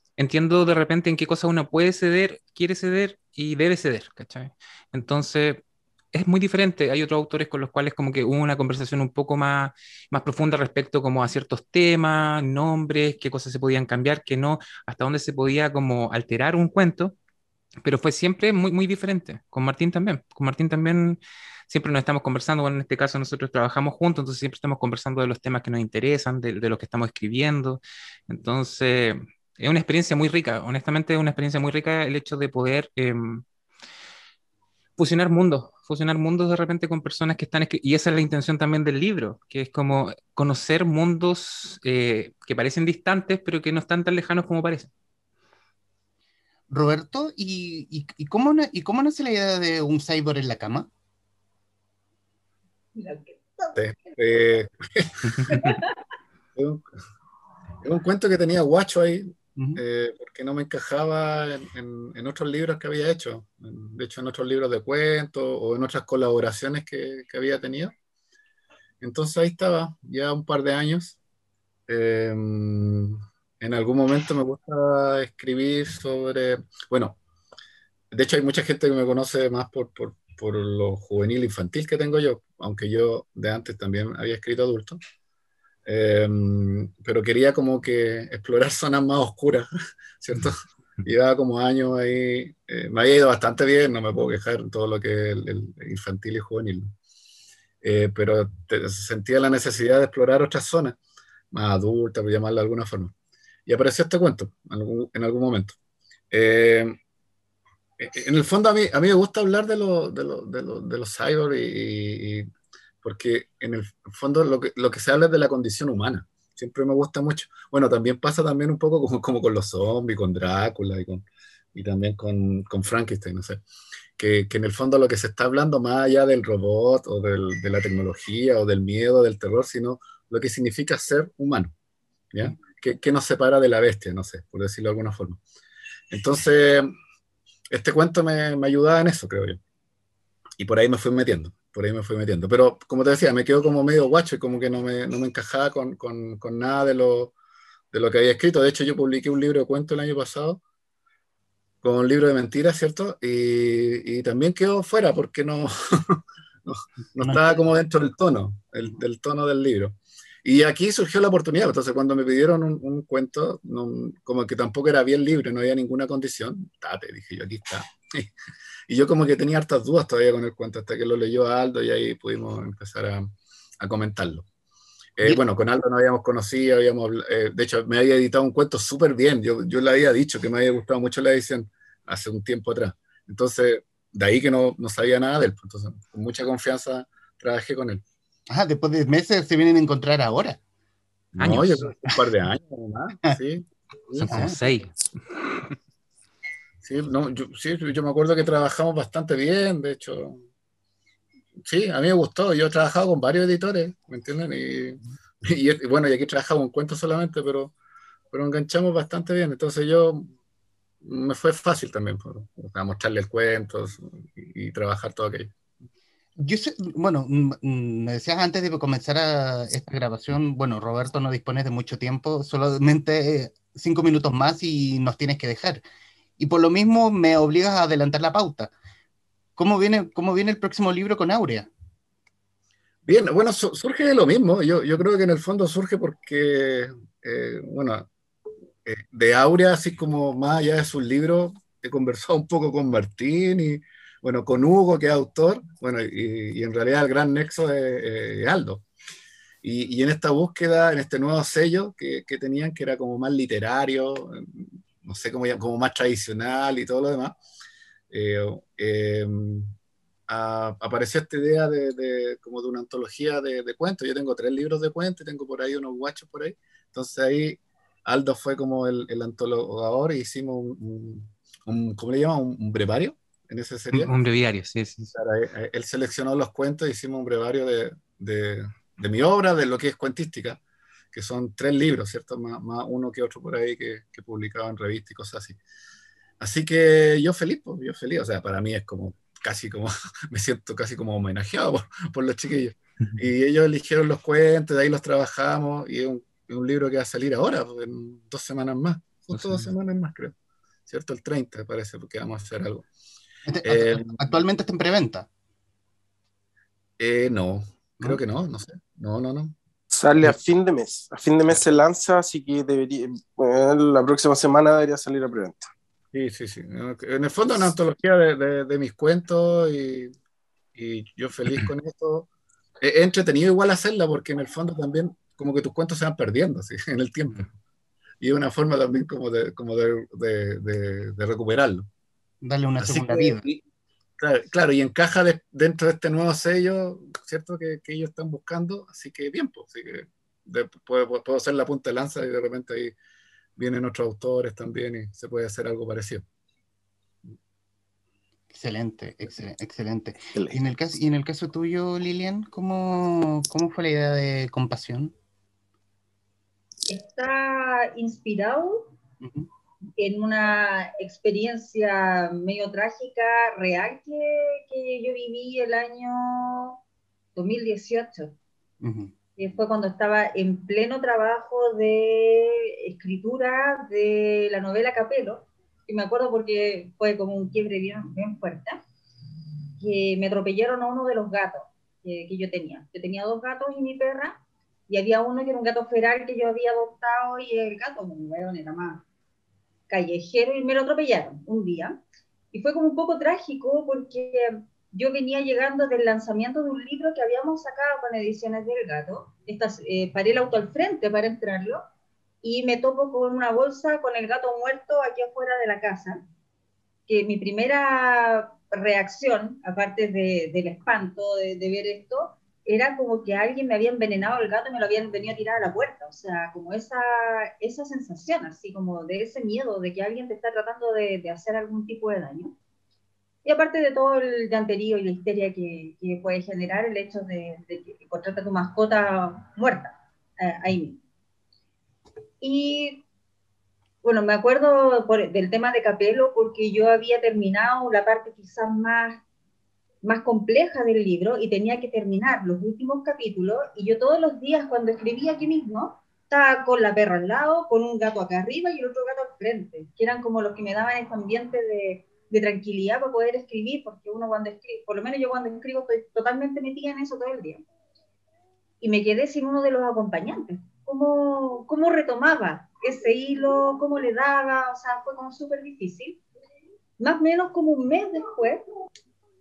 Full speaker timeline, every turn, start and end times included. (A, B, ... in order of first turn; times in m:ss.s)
0:00.2-0:17.2 A
0:17.8-0:21.2 A
0:21.7-0:33.4 A
0:35.0-0:44.9 A
0:46.7-0:50.9 B
0:53.0-0:54.2 C
0:53.8-0:55.7 D
0:55.5-0:56.0 C
0:56.6-0:56.9 D
0:57.8-1:07.9 D
1:09.0-1:11.2 D
1:11.9-1:17.2 D
1:18.1-1:25.0 D
1:25.9-1:29.7 D
1:30.2-1:36.9 D
1:37.8-1:41.0 D
1:41.5-1:43.1 D
1:43.7-1:45.8 D
1:46.3-1:47.0 D
1:48.0-1:52.5 D
1:53.0-2:03.6 D
2:04.2-2:11.7 D
2:12.3-2:15.4 D
2:16.1-2:16.9 D
2:17.7-2:19.6 D
2:20.6-2:27.3 D
2:27.9-2:30.6 D
2:31.8-2:48.3 D
2:37.2-2:37.6 B
2:48.9-2:54.5 D
2:55.2-3:08.0 D
3:08.5-3:10.6 B
3:11.4-3:11.7 A
3:11.4-3:14.7 D
3:11.5-3:12.2 B
3:14.2-3:15.0 A
3:14.3-3:14.6 B
3:16.8-3:20.4 D
3:21.6-3:27.7 D
3:28.3-3:30.3 D
3:31.0-3:35.5 D
3:36.4-3:45.8 B
3:46.4-3:48.7 B
3:49.6-3:51.7 B
3:53.0-3:58.1 D
3:58.8-4:08.9 D
4:09.6-4:17.4 D
4:18.1-4:19.8 D
4:20.3-4:34.2 D
4:33.9-4:35.1 A
4:35.2-4:40.6 D
4:41.1-4:45.6 D
4:46.4-5:00.4 D
4:59.4-4:59.6 A
5:00.9-5:02.9 D
5:03.5-5:05.3 B
5:03.6-5:04.2 D
5:07.0-5:09.6 D
5:09.9-5:15.7 E
5:16.1-5:20.1 D
5:20.8-5:22.3 D
5:22.8-5:27.5 D
5:28.2-5:31.9 D
5:32.4-5:33.5 B
5:32.8-5:33.6 D
5:34.2-5:43.0 D
5:43.6-5:46.2 D
5:48.5-5:55.2 B
5:56.9-5:58.9 C
5:59.2-5:59.5 B
6:00.0-6:06.8 C
6:07.4-6:08.4 C
6:08.8-6:09.1 B
6:09.4-6:18.8 C
6:19.8-6:29.0 C
6:29.9-6:32.0 C
6:32.5-6:41.8 C
6:42.4-6:46.2 C
6:47.1-7:02.5 C
7:03.4-7:11.0 C
7:12.4-7:13.0 C
7:14.0-7:19.2 C
7:20.0-7:37.6 C
7:38.8-7:46.2 C
7:47.0-7:48.6 C